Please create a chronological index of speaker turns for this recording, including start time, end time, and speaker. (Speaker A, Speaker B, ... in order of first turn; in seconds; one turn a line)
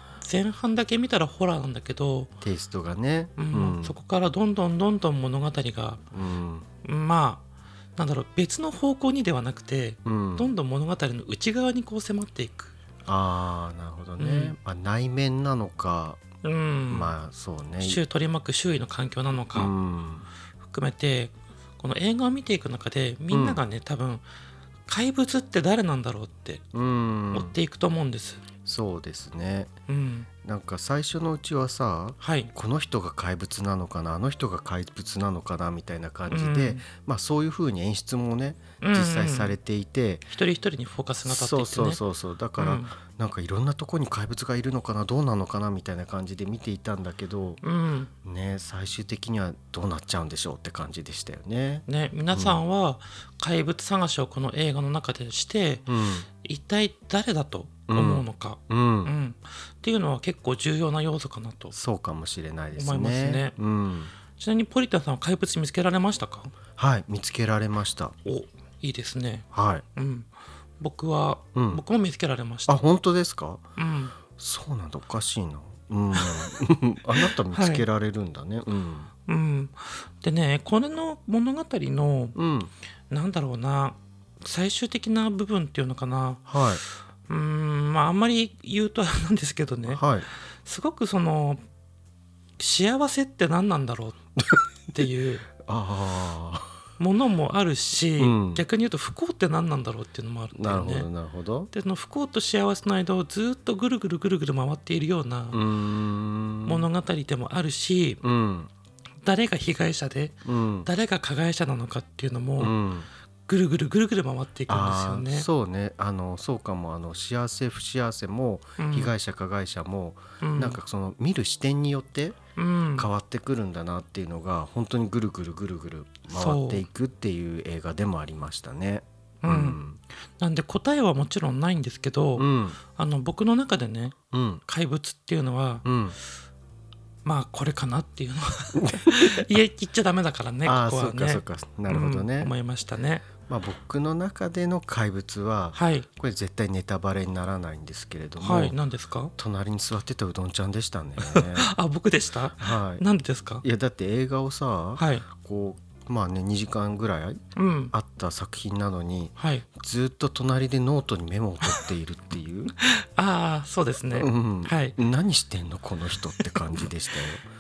Speaker A: 0.2-2.3
Speaker B: 2.4-4.0
Speaker A: 3.4-6.1
Speaker B: 6.1-6.7
Speaker A: 6.8-7.4
Speaker A: 8.0-12.7
Speaker B: 10.1-10.5
Speaker B: 13.1-16.2
Speaker A: 14.2-14.6
Speaker A: 16.4-17.1
Speaker B: 16.9-18.0
Speaker A: 17.8-19.7
Speaker B: 19.6-20.3
Speaker A: 20.6-24.2
Speaker B: 23.3-23.6
Speaker A: 24.9-26.6
Speaker B: 26.7-27.6
Speaker A: 27.3-28.6
Speaker B: 28.6-29.7
Speaker A: 29.9-30.3
Speaker B: 30.4-40.3
Speaker A: 32.2-32.5
Speaker A: 36.3-36.9
Speaker A: 38.8-39.6
Speaker A: 40.3-42.0
Speaker B: 41.2-47.6
Speaker A: 42.6-43.0
Speaker A: 47.6-48.1
Speaker B: 48.2-52.6
Speaker A: 51.9-61.8
Speaker B: 55.9-56.3
Speaker B: 57.9-59.1
Speaker B: 61.7-64.1
Speaker A: 62.7-63.6
Speaker A: 64.2-66.6
Speaker B: 66.7-68.1
Speaker A: 68.2-72.8
Speaker B: 69.5-69.8
Speaker B: 71.5-71.8
Speaker B: 72.7-73.6
Speaker A: 73.8-74.3
Speaker B: 74.3-79.1
Speaker A: 76.1-76.5
Speaker A: 77.2-77.9
Speaker A: 79.2-82.4
Speaker B: 82.4-82.7
Speaker A: 83.1-86.6
Speaker B: 86.5-86.8
Speaker A: 87.3-90.0
Speaker B: 89.9-90.3
Speaker A: 90.6-91.6
Speaker A: 92.6-94.2
Speaker B: 94.4-96.7
Speaker A: 94.9-95.5
Speaker A: 97.0-101.1
Speaker B: 98.2-98.7
Speaker B: 100.5-101.7
Speaker A: 101.7-105.6
Speaker B: 105.5-106.9
Speaker A: 106.6-108.2
Speaker B: 108.2-108.7
Speaker A: 109.2-112.8
Speaker B: 110.4-110.9
Speaker B: 112.6-113.1
Speaker A: 113.5-115.5
Speaker B: 114.7-122.4
Speaker A: 118.8-119.1
Speaker A: 120.4-120.8
Speaker A: 122.5-123.1
Speaker B: 123.0-130.0
Speaker A: 126.3-126.9
Speaker A: 129.4-129.8
Speaker A: 130.4-135.8
Speaker B: 132.4-132.8
Speaker B: 134.3-134.6
Speaker B: 135.8-136.2
Speaker A: 137.2-143.4
Speaker B: 138.7-139.5
Speaker B: 140.6-142.5
Speaker B: 143.4-148.8
Speaker A: 145.7-146.1
Speaker A: 148.4-149.3
Speaker B: 149.4-151.7
Speaker A: 151.2-153.6
Speaker B: 152.6-153.0
Speaker B: 153.6-157.4
Speaker A: 155.0-155.4
Speaker A: 157.6-157.9
Speaker B: 157.9-162.7
Speaker A: 159.4-159.8
Speaker A: 161.6-161.9
Speaker A: 162.8-165.0
Speaker B: 164.1-167.4
Speaker A: 166.4-166.9